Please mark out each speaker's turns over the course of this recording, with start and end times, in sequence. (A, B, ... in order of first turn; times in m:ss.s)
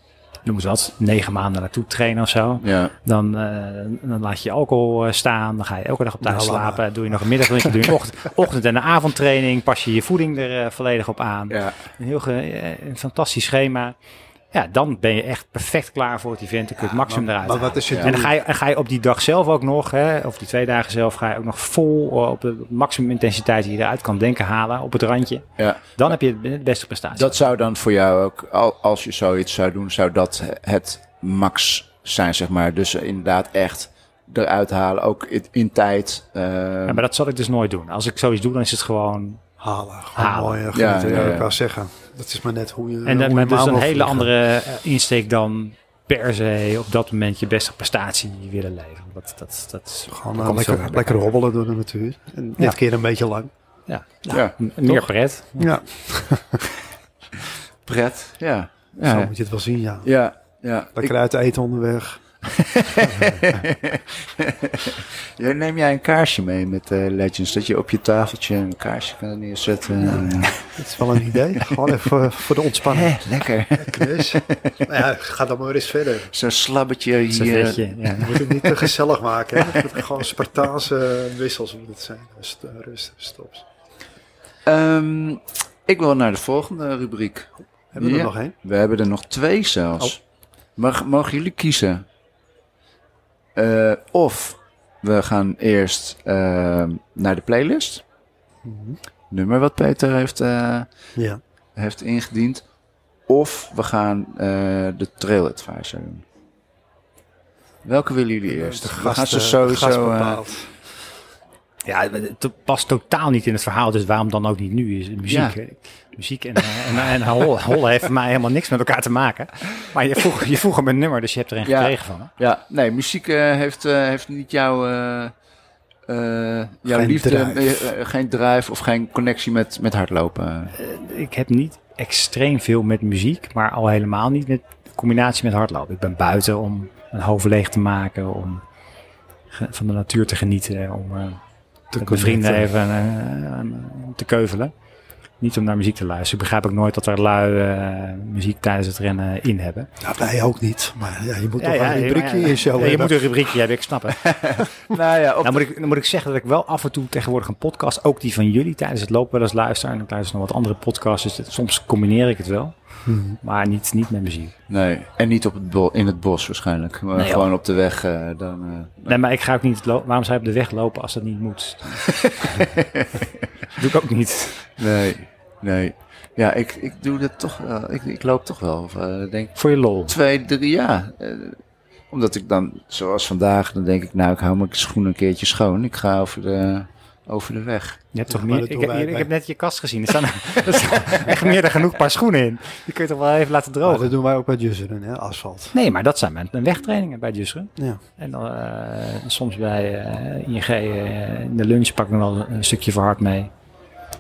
0:00.4-0:13.9 A
0:02.6-0:02.9 B
0:06.2-0:07.7 C
0:11.5-0:11.8 B
0:14.5-0:27.4 A
0:16.8-0:18.3 C
0:17.9-0:18.2 B
0:27.1-0:37.0 B
0:36.9-0:39.4 A
0:39.6-0:44.3 C
0:40.1-0:41.4 A
0:40.7-0:41.5 B
0:43.0-0:51.2 A
0:50.1-0:53.5 C
0:53.9-0:55.7 A
0:54.3-0:54.6 B
0:55.6-0:56.6 C
0:57.4-0:59.3 B
0:59.0-1:00.1 C
1:00.0-1:01.1 B
1:01.0-1:02.2 C
1:02.4-1:12.0 B
1:10.0-1:13.1 C
1:12.8-1:14.9 B
1:13.8-1:16.3 C
1:16.3-1:18.6 B
1:17.3-1:18.6 A
1:18.2-1:23.6 C
1:19.6-1:19.9 B
1:24.6-1:30.2 B
1:27.9-1:28.5 C
1:30.8-1:32.0 B
1:33.5-1:38.0 B
1:38.6-1:39.0 C
1:39.3-1:40.9 B
1:41.2-1:41.4 C
1:41.8-1:42.6 B
1:43.3-1:46.2 B
1:47.8-1:50.4 B
1:48.5-1:50.7 C
1:51.9-2:02.3 A
1:55.3-1:55.6 B
2:01.6-2:05.3 B
2:06.1-2:10.7 B
2:06.9-2:07.9 C
2:10.7-2:18.6 A
2:19.5-2:21.4 A
2:21.9-2:22.6 C
2:22.0-2:24.7 A
2:25.4-2:29.9 A
2:30.0-2:33.1 C
2:31.6-2:34.3 A
2:34.2-2:35.7 B
2:35.4-2:42.7 A
2:43.0-2:43.4 C
2:43.4-2:44.5 A
2:44.7-2:49.2 B
2:47.2-2:47.5 A
2:49.1-2:52.1 A
2:52.0-2:53.5 B
2:53.7-2:54.7 A
2:54.8-3:01.6 B
2:59.6-3:00.2 A
3:02.1-3:08.0 B
3:08.1-3:14.1 A
3:08.3-3:09.3 C
3:13.8-3:15.7 C
3:15.7-3:23.5 A